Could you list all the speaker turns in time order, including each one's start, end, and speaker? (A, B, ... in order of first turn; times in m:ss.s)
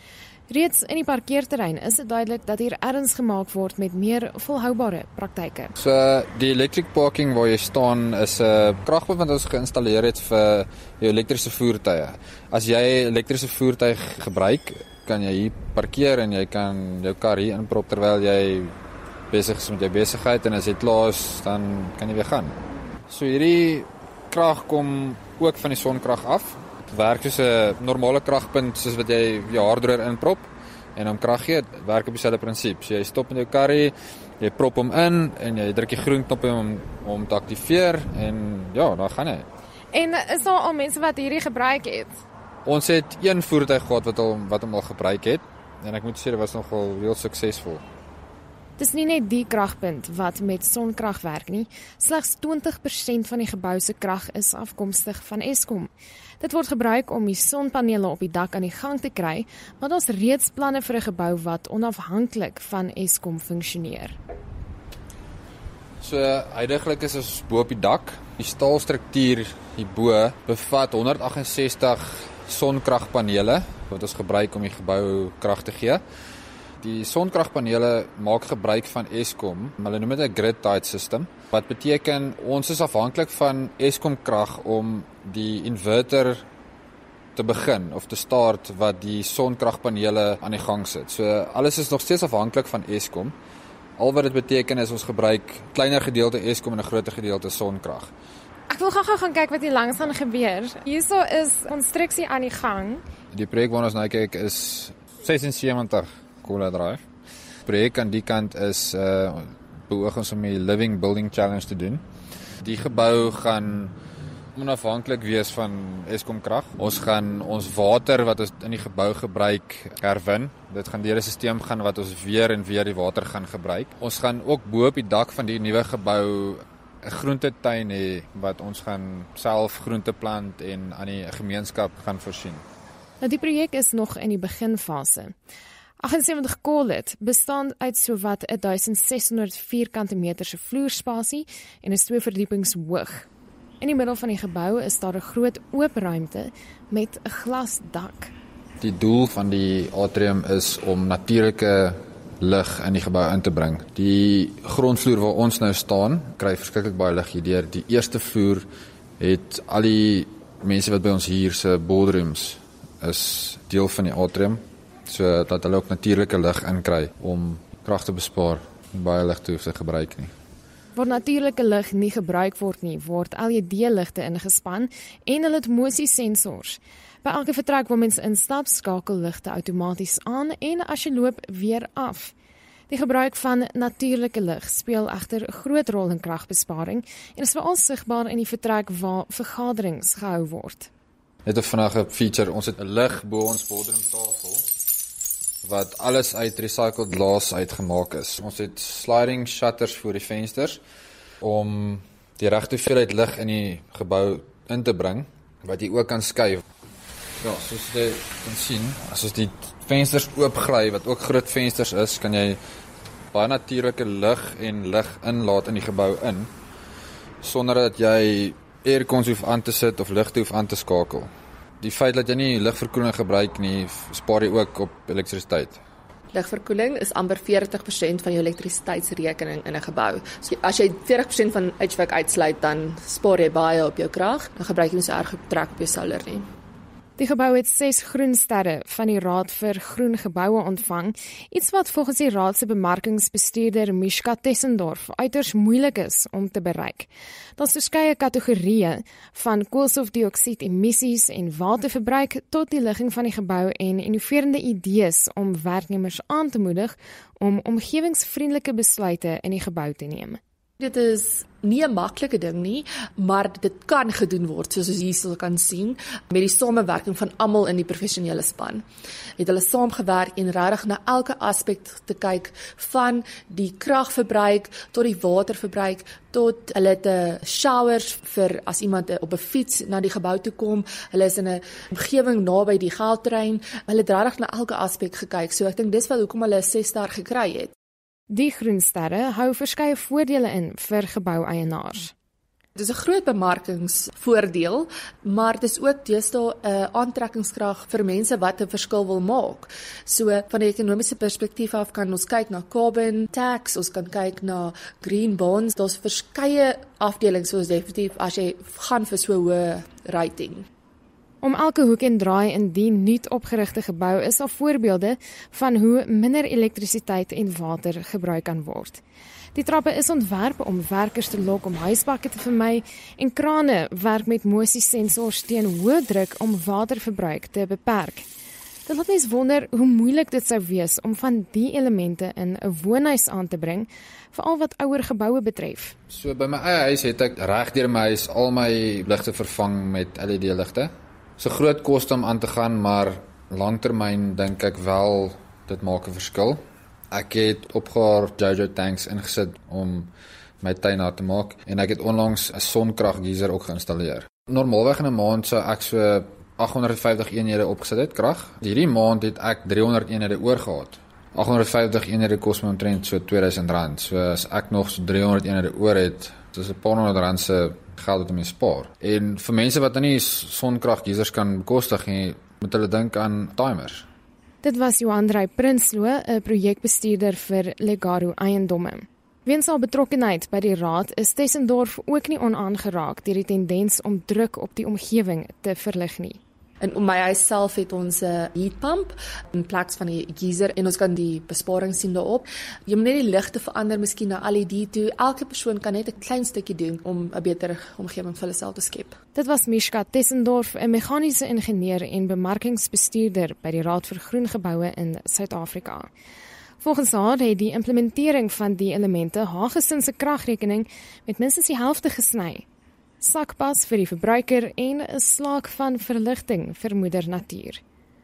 0:00.5-0:05.7 A
0:05.8-0:18.7 B
0:19.3-0:39.5 B
0:39.9-0:42.1 A
0:42.6-0:47.8 B
0:48.8-1:04.2 A
1:06.0-1:16.0 B
1:16.8-1:26.4 B
1:27.4-1:33.3 B
1:34.0-1:38.1 B
1:38.7-1:43.0 A
1:43.3-1:47.0 B
1:47.6-1:52.0 B
1:52.6-1:53.9 B
1:54.5-2:12.6 B
2:13.2-2:15.3 A
2:16.0-2:23.3 A
2:23.8-2:28.3 A
2:28.8-2:38.6 B
2:39.2-2:50.3 B
2:50.9-3:02.3 A
3:02.9-3:10.9 A
3:11.4-3:14.6 B
3:15.6-3:20.8 B
3:21.4-3:26.6 B
3:27.4-3:32.6 B
3:33.3-3:36.5 B
3:37.4-3:45.8 B
3:46.3-3:56.4 C
3:57.2-4:20.4 A
4:20.8-4:28.8 C
4:29.4-4:47.7 C
4:48.3-4:52.1 A
4:52.8-5:10.7 C
5:11.4-5:19.0 A
5:19.5-5:28.3 A
5:28.9-5:35.9 A
5:36.1-5:46.6 B
5:47.1-6:14.0 B
6:14.6-6:26.4 A
6:26.8-6:39.2 C
6:39.3-6:46.1 A
6:46.8-6:52.6 A
6:53.2-6:57.8 A